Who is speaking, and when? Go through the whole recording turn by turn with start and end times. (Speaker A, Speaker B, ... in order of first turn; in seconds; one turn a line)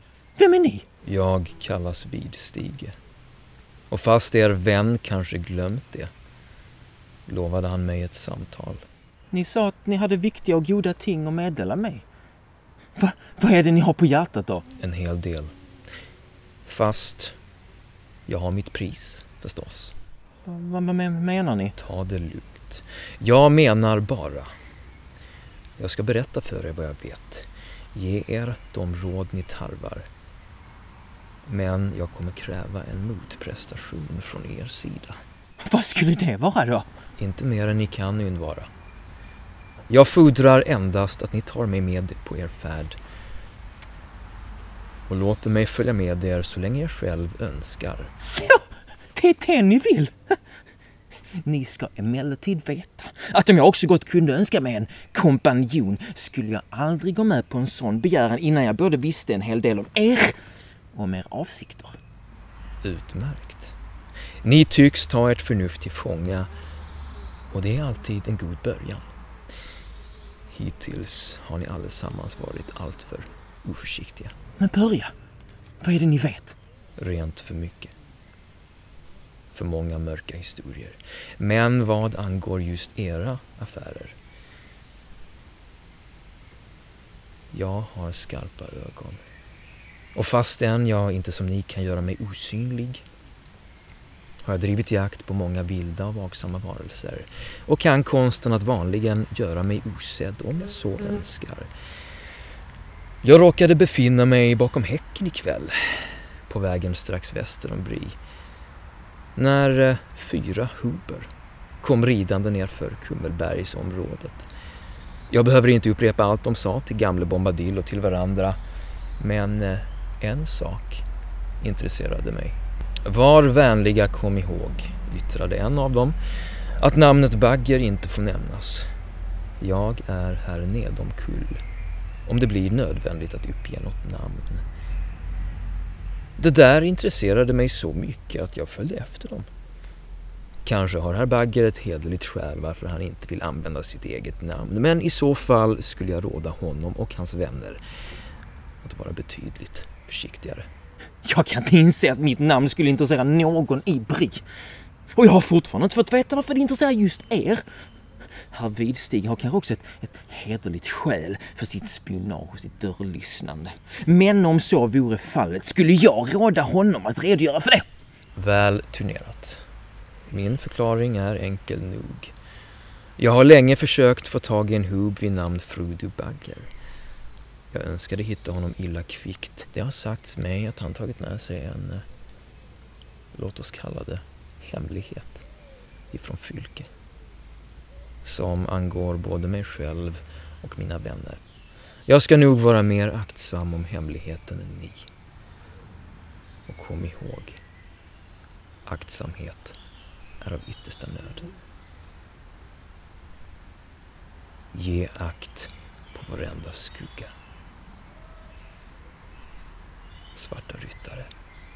Speaker A: 0.4-0.9
Speaker B: 1.0-3.0
Speaker B: 3.9-6.1
Speaker B: 7.3-8.8
Speaker A: 9.3-12.1
Speaker A: 13.0-14.7
Speaker B: 14.8-15.5
Speaker B: 16.7-17.4
Speaker B: 18.3-20.0
Speaker A: 20.4-21.8
Speaker B: 21.8-24.5
Speaker B: 25.8-30.1
Speaker B: 31.5-35.2
Speaker A: 35.6-36.9
Speaker B: 37.2-38.7
Speaker B: 39.9-43.0
Speaker B: 45.1-48.1
Speaker A: 48.2-50.4
Speaker A: 51.4-60.4
Speaker A: 60.9-62.0
Speaker B: 62.8-63.8
Speaker B: 64.4-66.5
Speaker B: 67.5-69.1
Speaker B: 70.5-74.3
Speaker A: 74.6-75.1
Speaker A: 75.8-76.5
Speaker B: 77.0-77.9
Speaker B: 79.5-84.2
Speaker B: 87.5-89.2
Speaker B: 90.2-93.0
Speaker B: 94.5-101.7
Speaker B: 103.2-108.2
Speaker B: 109.4-111.3
Speaker B: 111.8-114.5
Speaker B: 115.3-118.6
Speaker B: 119.2-121.0
Speaker B: 121.6-126.2
Speaker B: 126.8-128.9
Speaker B: 129.6-131.6
Speaker B: 132.3-134.6
Speaker B: 136.4-139.5
Speaker B: 140.7-147.8
Speaker B: 148.8-150.7
Speaker A: 151.2-154.4
Speaker A: 155.1-157.7
Speaker A: 158.5-167.9
Speaker B: 168.4-169.6
Speaker B: 170.3-172.3
Speaker B: 173.2-176.7
Speaker B: 177.7-182.1
Speaker B: 183.3-185.4
Speaker B: 186.1-186.9
Speaker B: 188.2-191.4
Speaker B: 192.1-195.1
Speaker B: 196.7-197.6
Speaker B: 198.9-199.8
Speaker B: 200.4-201.5
Speaker B: 204.7-207.3
Speaker B: 210.3-211.3